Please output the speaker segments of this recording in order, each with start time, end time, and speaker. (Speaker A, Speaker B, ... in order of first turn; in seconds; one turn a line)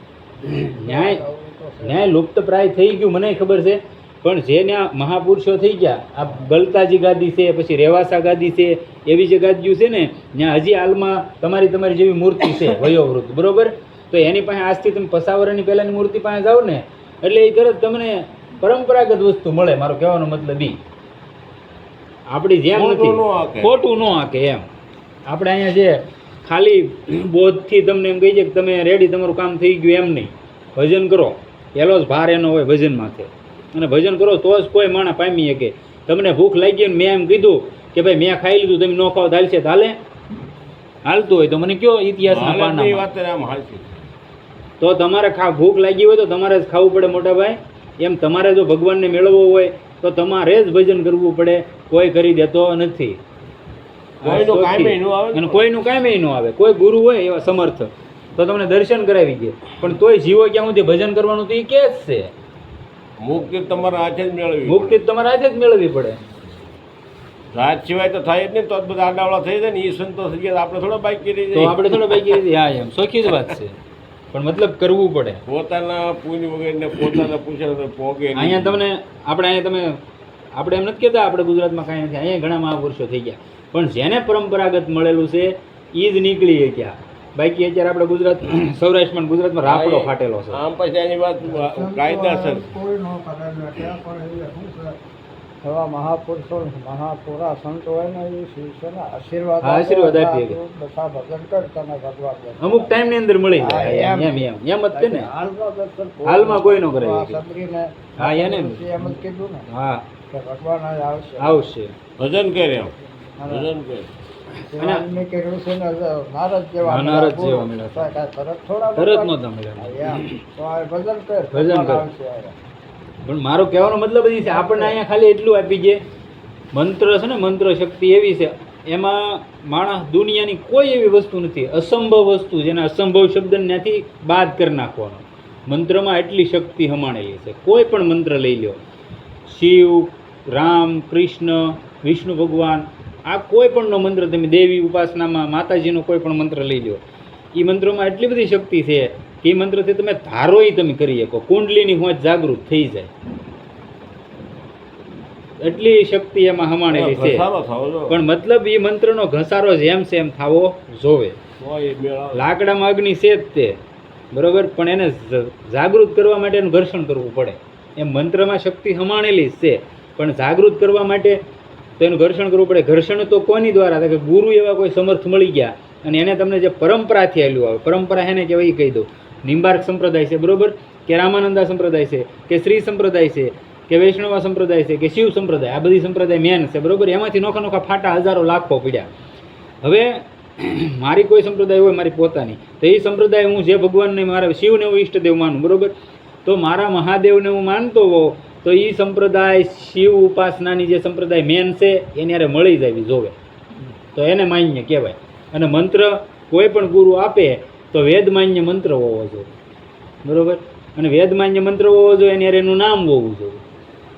Speaker A: 0.4-1.2
Speaker B: 0.7-2.1
Speaker A: 1.8-20.8
Speaker A: 22.3-24.7
Speaker C: 22.7-23.8
Speaker A: 25.3-40.0
Speaker A: 41.0-43.0
Speaker C: 42.2-44.0
Speaker A: 44.8-53.2
Speaker A: 54.2-62.3
Speaker C: 54.2-55.7
Speaker C: 63.2-65.0
Speaker A: 64.7-66.2
Speaker C: 67.5-72.5
Speaker A: 71.5-73.8
Speaker A: 74.3-75.4
Speaker C: 75.5-78.8
Speaker A: 78.3-80.0
Speaker A: 80.5-90.6
Speaker C: 89.6-92.7
Speaker B: 91.5-95.0
Speaker B: 95.6-109.7
Speaker A: 99.6-100.6
Speaker A: 102.6-105.3
Speaker A: 106.2-107.4
Speaker A: 108.2-110.0
Speaker B: 110.3-111.6
Speaker A: 111.4-111.9
Speaker C: 112.2-112.9
Speaker B: 113.3-113.7
Speaker C: 113.5-114.1
Speaker B: 114.6-122.5
Speaker A: 114.7-115.0
Speaker A: 116.8-118.1
Speaker A: 119.0-120.4
Speaker A: 121.5-122.0
Speaker A: 123.2-126.0
Speaker B: 124.4-125.0
Speaker A: 126.7-138.8
Speaker A: 139.5-147.0
Speaker A: 147.5-153.1
Speaker A: 155.6-157.5
Speaker C: 156.9-158.2
Speaker A: 158.1-161.4
Speaker C: 161.6-162.5
Speaker A: 162.3-163.8
Speaker A: 164.3-171.4
Speaker A: 172.0-189.1
Speaker A: 189.8-195.9
Speaker A: 196.4-203.4
Speaker A: 204.1-209.5
Speaker A: 210.2-213.6